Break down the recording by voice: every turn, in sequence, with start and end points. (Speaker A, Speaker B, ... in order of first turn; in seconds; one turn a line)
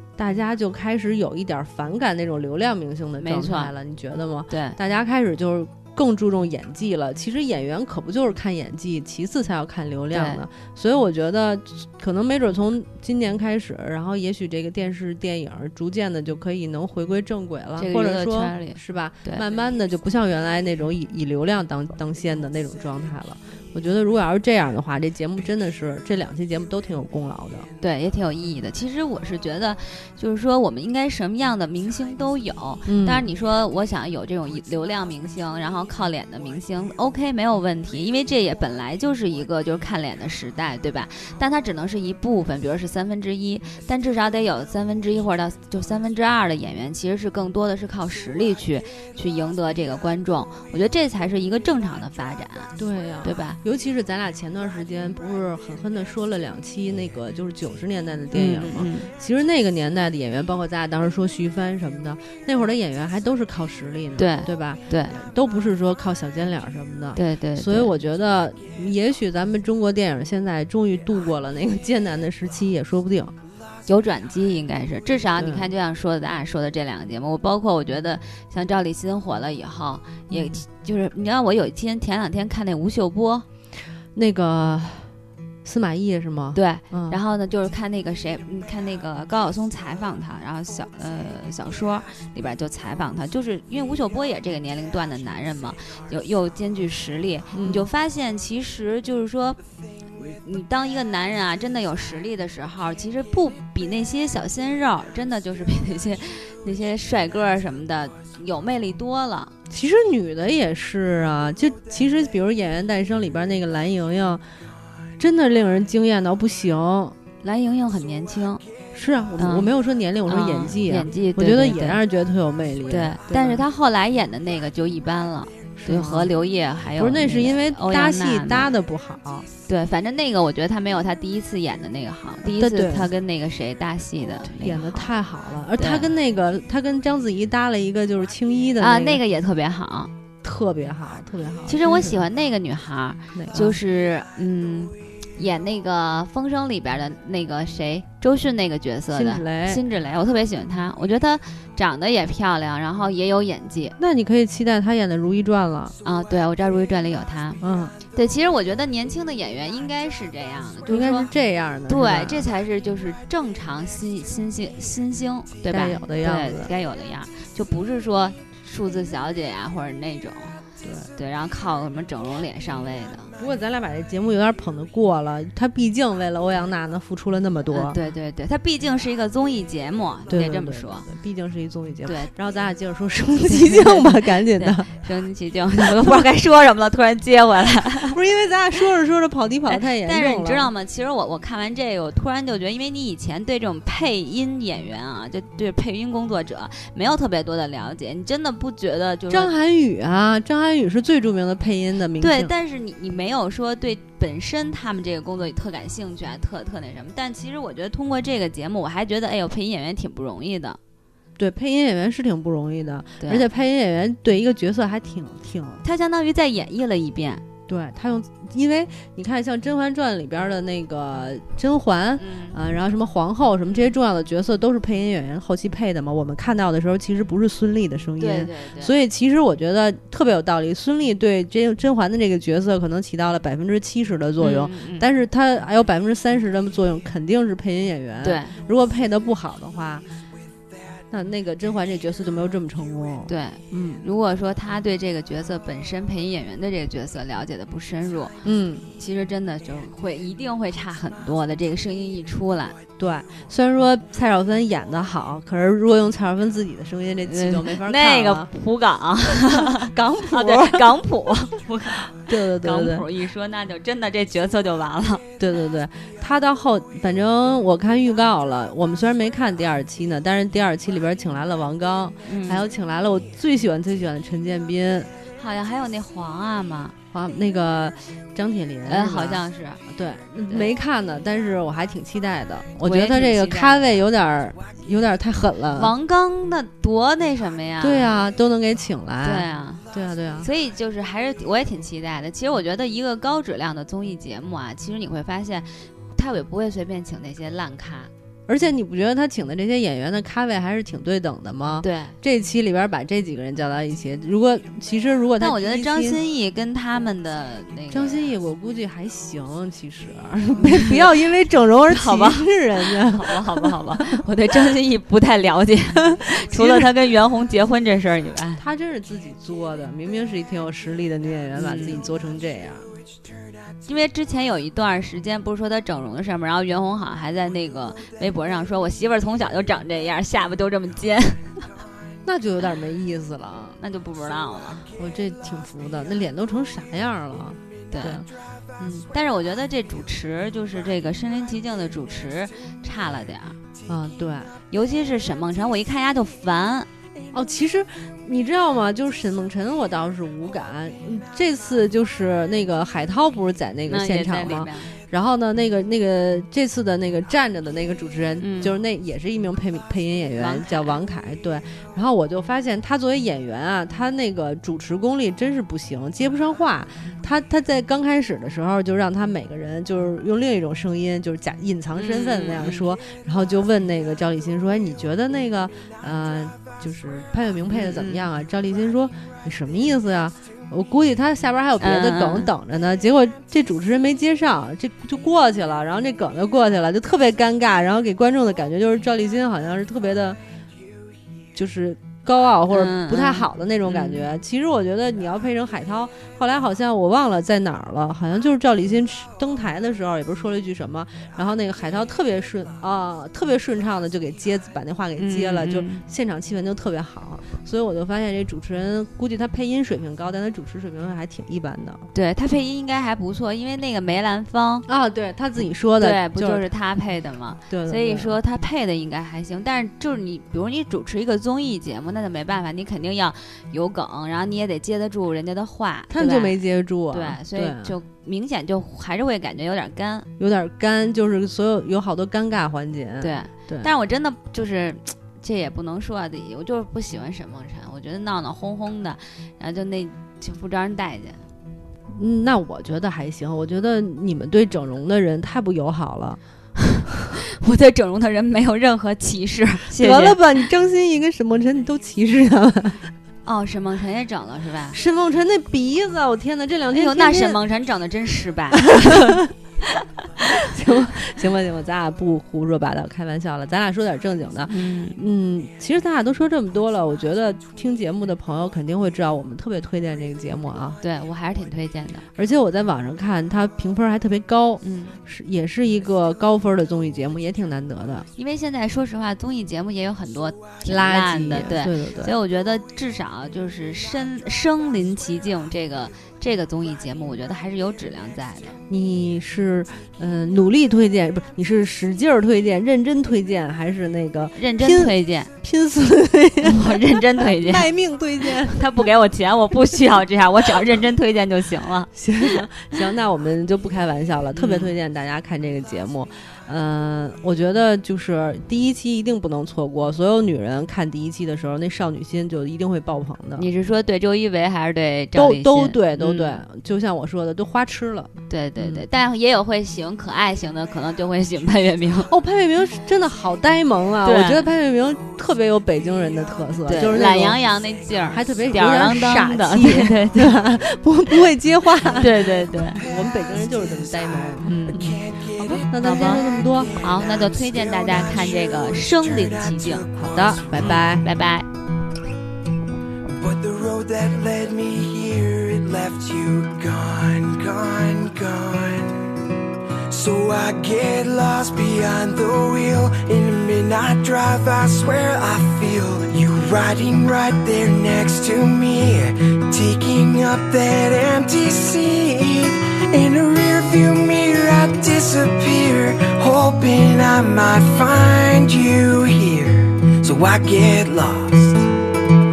Speaker A: 0.2-27.6
Speaker B: 3.2-3.7
Speaker B: 4.5-4.8
Speaker B: 10.1-10.4
Speaker B: 17.8-19.4
Speaker B: 27.8-52.7
Speaker A: 32.9-33.3
Speaker A: 52.8-73.3
Speaker B: 53.2-53.6
Speaker B: 58.3-59.1
Speaker B: 64.2-65.2
Speaker B: 67.1-67.9
Speaker B: 73.9-83.5
Speaker A: 75.4-75.7
Speaker A: 80.3-80.6
Speaker A: 84.1-85.1
Speaker A: 85.6-87.2
Speaker B: 86.5-99.6
Speaker A: 97.5-97.9
Speaker B: 100.2-109.5
Speaker A: 109.7-114.4
Speaker A: 115.2-117.2
Speaker B: 117.4-118.6
Speaker A: 118.9-123.6
Speaker B: 119.4-119.7
Speaker B: 120.3-122.0
Speaker B: 122.9-128.7
Speaker A: 125.8-126.3
Speaker A: 127.0-129.5
Speaker B: 129.7-135.1
Speaker A: 132.4-133.1
Speaker A: 134.4-139.2
Speaker B: 135.8-136.1
Speaker B: 138.8-140.1
Speaker A: 140.4-142.2
Speaker B: 141.7-153.9
Speaker A: 143.3-143.8
Speaker A: 149.1-149.8
Speaker A: 154.0-155.9
Speaker B: 156.0-157.6
Speaker A: 157.6-157.9
Speaker B: 158.1-161.3
Speaker A: 160.9-162.5
Speaker B: 161.9-170.6
Speaker A: 165.7-166.7
Speaker A: 170.8-171.1
Speaker B: 171.1-173.3
Speaker A: 173.4-178.0
Speaker B: 177.7-181.1
Speaker A: 180.3-184.9
Speaker B: 182.0-182.3
Speaker B: 183.4-188.2
Speaker A: 188.1-190.7
Speaker B: 189.7-199.5
Speaker A: 199.3-202.5
Speaker B: 202.2-210.8
Speaker A: 211.4-215.8
Speaker B: 215.8-217.4
Speaker A: 217.7-240.0
Speaker B: 222.2-222.6
Speaker B: 228.2-229.0
Speaker B: 234.4-235.1
Speaker B: 238.2-238.6
Speaker A: 241.1-244.0
Speaker B: 243.3-248.3
Speaker A: 248.4-248.8
Speaker B: 249.0-252.8
Speaker A: 253.0-258.5
Speaker B: 257.2-265.2
Speaker A: 259.5-261.0
Speaker A: 262.0-263.1
Speaker A: 265.4-275.1
Speaker B: 272.2-272.6
Speaker B: 275.4-276.9
Speaker A: 277.1-285.9
Speaker B: 278.9-279.8
Speaker B: 282.8-283.9
Speaker B: 285.8-288.1
Speaker A: 287.8-290.5
Speaker B: 289.2-289.9
Speaker B: 290.4-298.1
Speaker A: 298.5-306.2
Speaker B: 301.8-302.2
Speaker B: 305.4-308.2
Speaker A: 307.9-314.2
Speaker B: 310.6-311.1
Speaker B: 311.9-318.6
Speaker A: 316.5-316.9
Speaker A: 318.6-322.9
Speaker B: 321.5-322.0
Speaker B: 323.9-331.7
Speaker A: 332.2-333.8
Speaker B: 333.8-334.9
Speaker A: 335.0-338.3
Speaker B: 337.9-338.2
Speaker A: 338.8-339.1
Speaker B: 339.1-343.6
Speaker A: 343.9-344.5
Speaker B: 344.7-346.9
Speaker A: 347.3-390.4
Speaker B: 353.9-354.9
Speaker B: 358.4-358.7
Speaker B: 360.4-361.0
Speaker B: 371.9-372.9
Speaker B: 377.7-378.3
Speaker B: 381.8-382.5
Speaker A: 391.5-412.1
Speaker B: 392.7-394.3
Speaker B: 405.2-406.0
Speaker B: 412.1-414.9
Speaker A: 414.9-416.7
Speaker B: 416.0-426.6
Speaker A: 417.7-418.4
Speaker A: 426.1-427.9
Speaker B: 427.1-430.3
Speaker A: 430.4-433.9
Speaker B: 433.2-441.4
Speaker A: 442.1-446.4
Speaker B: 446.8-450.4
Speaker A: 449.9-453.0
Speaker B: 453.4-455.0
Speaker A: 454.9-457.6
Speaker B: 456.9-459.4
Speaker A: 458.7-459.5
Speaker B: 460.0-460.6
Speaker A: 460.6-471.0
Speaker B: 464.7-465.2
Speaker B: 471.0-472.3
Speaker A: 472.4-478.3
Speaker B: 474.8-475.2
Speaker B: 478.4-488.8
Speaker A: 480.8-482.3
Speaker A: 488.9-498.8
Speaker B: 494.6-495.5
Speaker B: 496.6-497.9
Speaker B: 498.7-502.5
Speaker A: 502.1-513.7
Speaker B: 504.6-504.9
Speaker B: 513.6-516.6
Speaker A: 515.4-519.0
Speaker B: 518.5-522.3
Speaker A: 522.3-527.6
Speaker B: 524.2-524.6
Speaker B: 526.9-530.6
Speaker A: 528.3-536.9
Speaker B: 532.1-533.0
Speaker B: 534.6-535.1
Speaker C: 534.9-541.0
Speaker B: 536.0-540.0
Speaker A: 540.1-541.3
Speaker B: 540.8-541.7
Speaker C: 543.3-549.3
Speaker C: 550.1-571.9